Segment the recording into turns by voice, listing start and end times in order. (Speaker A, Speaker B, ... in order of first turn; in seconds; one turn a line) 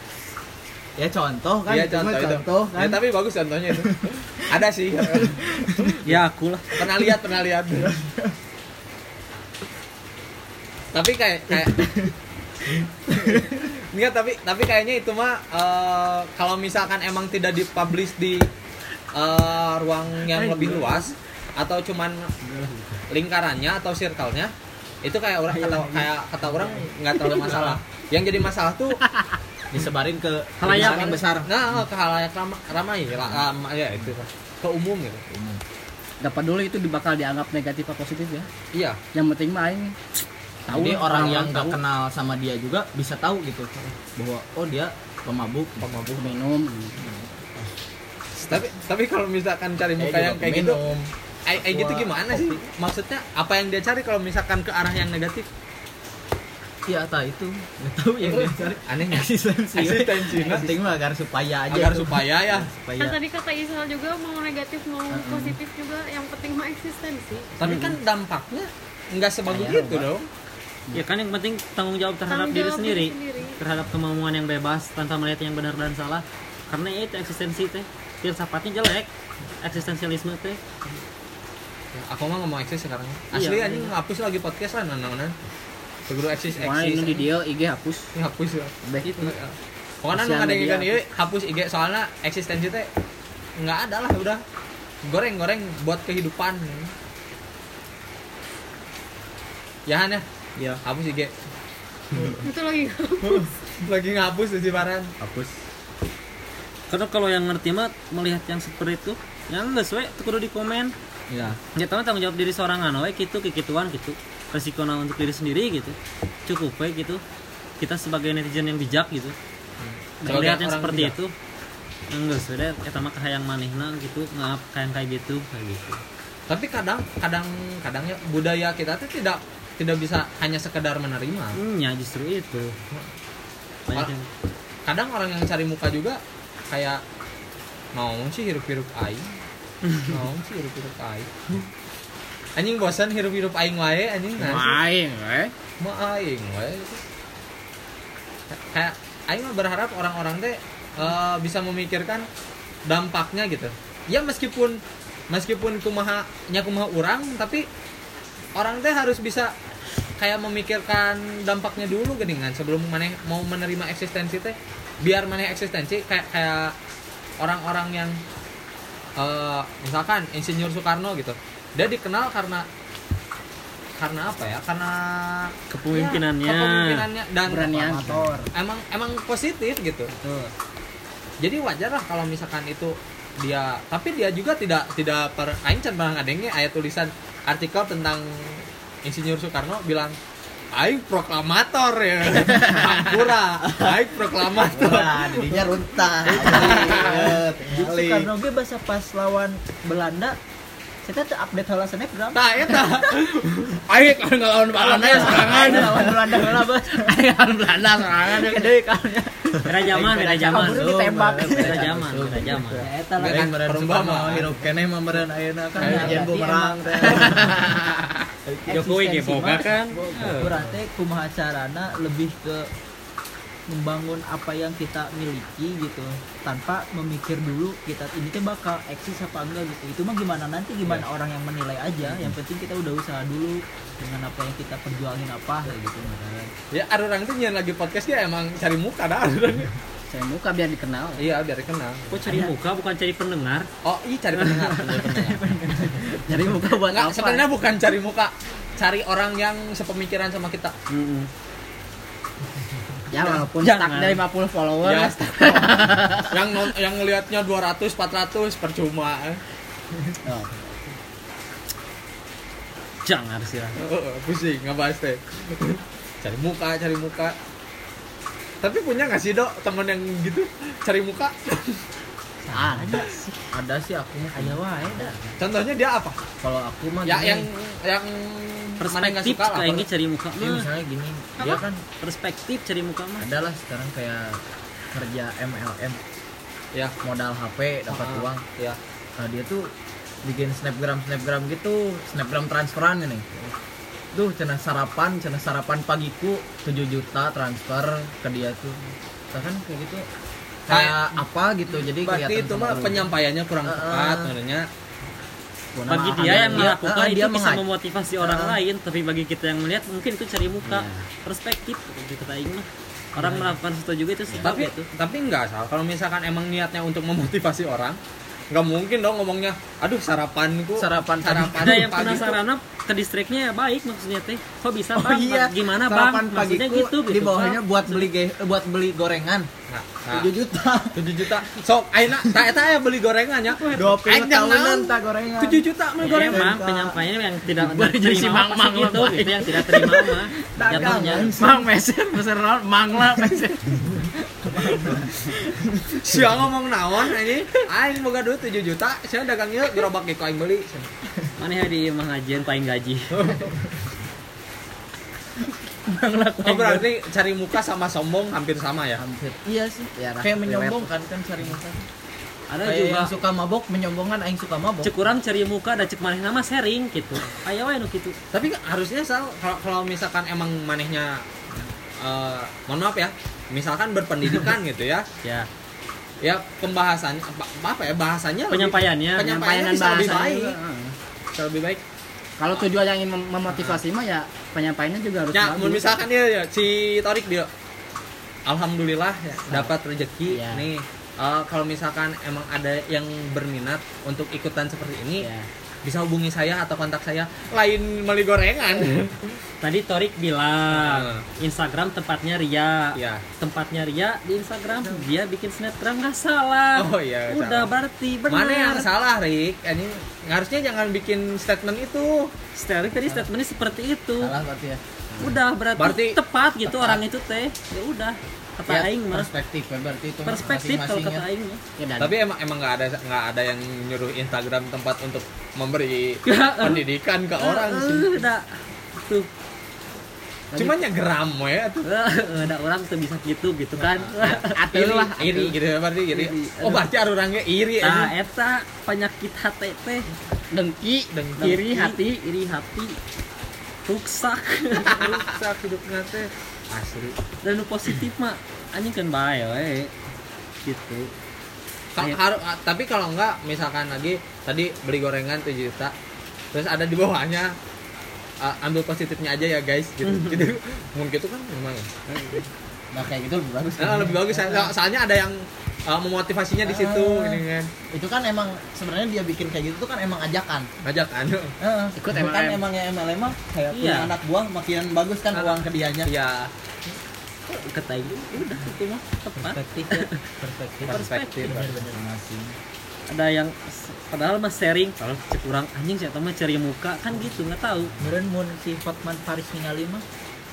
Speaker A: 1.0-3.0
Speaker B: 1.7-5.4
Speaker C: 6.0-6.6
Speaker B: 6.7-8.0
Speaker B: 10.9-11.9
Speaker B: 13.2-18.5
Speaker B: 19.1-22.3
Speaker D: 20.3-21.1
Speaker D: 22.5-22.8
Speaker B: 23.1-24.5
Speaker B: 25.0-29.0
Speaker D: 25.6-26.0
Speaker D: 26.7-27.8
Speaker D: 29.0-29.4
Speaker A: 29.7-31.5
Speaker C: 30.6-31.1
Speaker B: 30.6-35.2
Speaker A: 35.3-35.6
Speaker D: 36.2-38.5
Speaker B: 38.7-39.0
Speaker D: 39.1-40.0
Speaker A: 40.7-45.9
Speaker D: 40.7-41.8
Speaker B: 40.8-41.2
Speaker B: 45.8-46.4
Speaker D: 46.1-47.0
Speaker B: 48.3-50.8
Speaker A: 50.0-52.6
Speaker B: 51.5-55.5
Speaker A: 56.9-59.9
Speaker E: 57.0-57.3
Speaker B: 58.2-60.7
Speaker E: 58.4-58.8
Speaker E: 59.7-60.5
Speaker D: 60.3-60.7
Speaker A: 60.4-63.2
Speaker B: 61.7-62.7
Speaker F: 63.0-67.5
Speaker B: 67.6-70.3
Speaker C: 67.7-68.0
Speaker D: 69.5-70.0
Speaker C: 70.9-79.1
Speaker F: 72.3-73.6
Speaker C: 79.6-80.6
Speaker B: 81.9-85.3
Speaker C: 83.3-83.9
Speaker B: 86.1-87.3
Speaker D: 86.5-88.1
Speaker B: 88.2-92.9
Speaker D: 88.8-89.3
Speaker D: 90.1-91.0
Speaker B: 93.6-94.4
Speaker B: 95.0-96.9
Speaker B: 99.9-100.2
Speaker B: 100.8-101.3
Speaker F: 102.4-103.5
Speaker B: 103.4-105.1
Speaker A: 105.2-105.5
Speaker C: 106.9-110.9
Speaker A: 111.3-111.6
Speaker C: 111.7-116.0
Speaker C: 116.5-117.2
Speaker C: 117.8-119.3
Speaker B: 119.8-121.1
Speaker C: 120.2-121.3
Speaker C: 122.1-126.0
Speaker B: 126.5-131.6
Speaker C: 131.6-132.8
Speaker C: 133.9-134.3
Speaker B: 134.9-137.0
Speaker B: 137.9-139.3
Speaker B: 140.1-141.7
Speaker B: 142.6-144.8
Speaker D: 144.4-145.5
Speaker B: 145.8-147.0
Speaker B: 148.5-152.3
Speaker B: 152.8-157.7
Speaker B: 158.6-159.5
Speaker B: 160.2-166.7
Speaker B: 167.4-168.2
Speaker B: 169.2-172.7
Speaker B: 174.0-180.1
Speaker C: 175.7-177.1
Speaker D: 177.4-178.4
Speaker B: 181.4-190.1
Speaker B: 190.7-195.6
Speaker A: 194.6-198.3
Speaker B: 196.3-197.3
Speaker E: 196.4-197.1
Speaker E: 197.7-200.4
Speaker E: 201.0-202.9
Speaker B: 202.3-206.2
Speaker E: 204.7-207.2
Speaker D: 205.0-205.8
Speaker A: 205.1-205.9
Speaker D: 206.4-209.1
Speaker E: 208.2-209.6
Speaker C: 209.6-210.8
Speaker A: 209.9-217.6
Speaker D: 210.1-212.0
Speaker E: 210.5-211.8
Speaker C: 211.5-212.8
Speaker D: 212.8-213.4
Speaker B: 213.2-214.6
Speaker E: 215.8-217.5
Speaker B: 215.8-216.2
Speaker D: 215.8-217.8
Speaker B: 217.0-217.4
Speaker E: 218.4-222.7
Speaker C: 218.7-220.1
Speaker B: 220.1-220.7
Speaker E: 223.7-236.5
Speaker B: 236.7-239.7
Speaker D: 240.1-241.2
Speaker B: 241.2-242.2
Speaker C: 242.1-243.7
Speaker B: 243.8-245.6
Speaker D: 244.5-245.0
Speaker E: 245.1-246.2
Speaker D: 246.1-247.4
Speaker B: 246.8-250.7
Speaker C: 250.9-251.3
Speaker D: 253.1-256.3
Speaker C: 253.6-254.2
Speaker B: 254.8-259.4
Speaker D: 260.2-260.5
Speaker C: 263.1-263.8
Speaker B: 263.8-267.4
Speaker B: 268.6-271.8
Speaker E: 272.5-273.1
Speaker D: 272.5-273.4
Speaker A: 273.5-275.2
Speaker E: 274.4-275.1
Speaker D: 274.5-275.1
Speaker B: 275.4-276.2
Speaker A: 276.4-277.5
Speaker B: 277.0-279.9
Speaker C: 278.8-280.7
Speaker A: 280.4-281.8
Speaker F: 281.4-281.6
Speaker C: 282.0-283.2
Speaker A: 283.2-284.4
Speaker A: 284.9-286.0
Speaker A: 287.0-288.4
Speaker B: 287.9-288.8
Speaker A: 289.2-289.6
Speaker A: 290.2-293.5
Speaker A: 294.1-298.8
Speaker A: 299.3-300.0
Speaker A: 300.7-303.1
Speaker B: 300.7-301.1
Speaker B: 301.9-304.7
Speaker A: 303.6-304.3
Speaker D: 305.8-306.7
Speaker C: 305.9-314.9
Speaker A: 306.0-307.6
Speaker A: 308.2-308.6
Speaker D: 310.6-311.1
Speaker D: 313.2-313.5
Speaker B: 314.4-318.0
Speaker B: 318.5-322.4
Speaker A: 320.8-322.0
Speaker C: 321.4-328.1
Speaker A: 324.9-329.5
Speaker B: 329.7-330.3
Speaker A: 330.1-331.0
Speaker B: 330.9-336.4
Speaker A: 333.7-335.6
Speaker C: 336.0-341.4
Speaker D: 336.0-336.3
Speaker A: 336.3-337.0
Speaker D: 337.5-344.0
Speaker A: 338.8-339.1
Speaker A: 340.6-341.6
Speaker E: 344.7-345.1
Speaker B: 345.9-350.9
Speaker C: 351.4-353.3
Speaker B: 353.1-353.5
Speaker D: 355.9-356.8
Speaker B: 356.4-359.0
Speaker A: 359.0-361.8
Speaker D: 360.0-360.9
Speaker C: 362.5-363.1
Speaker A: 362.6-364.9
Speaker C: 364.8-368.1
Speaker B: 368.3-375.1
Speaker B: 376.2-380.6
Speaker C: 378.5-379.4
Speaker D: 379.3-380.9
Speaker B: 381.3-381.8
Speaker D: 382.4-386.0
Speaker B: 383.5-383.8
Speaker B: 385.3-387.5
Speaker B: 388.4-395.3
Speaker D: 390.3-390.6
Speaker D: 395.2-395.5
Speaker B: 395.8-399.4
Speaker C: 399.6-408.9
Speaker B: 400.7-401.2
Speaker B: 402.9-403.2
Speaker B: 406.8-407.7
Speaker B: 408.3-412.3
Speaker C: 412.6-414.3
Speaker A: 414.2-414.8
Speaker C: 415.2-419.3
Speaker B: 415.8-416.2
Speaker B: 416.7-417.0
Speaker A: 418.7-421.2
Speaker C: 420.2-421.6
Speaker D: 421.8-422.1
Speaker B: 422.0-428.2
Speaker C: 426.3-426.8
Speaker C: 427.4-428.4
Speaker C: 429.0-429.3
Speaker D: 430.5-430.9
Speaker B: 430.5-431.9
Speaker C: 431.8-434.5
Speaker D: 433.8-435.5
Speaker B: 434.2-438.1
Speaker D: 436.1-436.8
Speaker C: 437.8-440.1
Speaker D: 440.5-442.3
Speaker B: 441.1-441.4
Speaker C: 441.4-442.9
Speaker C: 443.9-445.2
Speaker B: 444.8-447.2
Speaker C: 447.4-449.9
Speaker D: 450.6-451.1
Speaker B: 451.9-455.9
Speaker B: 456.5-457.6
Speaker B: 458.4-461.9
Speaker C: 460.0-460.5
Speaker C: 462.1-462.4
Speaker A: 462.9-464.7
Speaker B: 463.8-467.7
Speaker A: 466.6-470.7
Speaker B: 470.8-471.5
Speaker A: 471.6-476.1
Speaker D: 471.9-472.6
Speaker C: 473.7-474.1
Speaker B: 475.3-476.5
Speaker C: 477.5-480.2
Speaker E: 479.3-482.6
Speaker B: 480.8-481.8
Speaker C: 480.9-481.4
Speaker C: 483.1-487.9
Speaker E: 488.0-490.0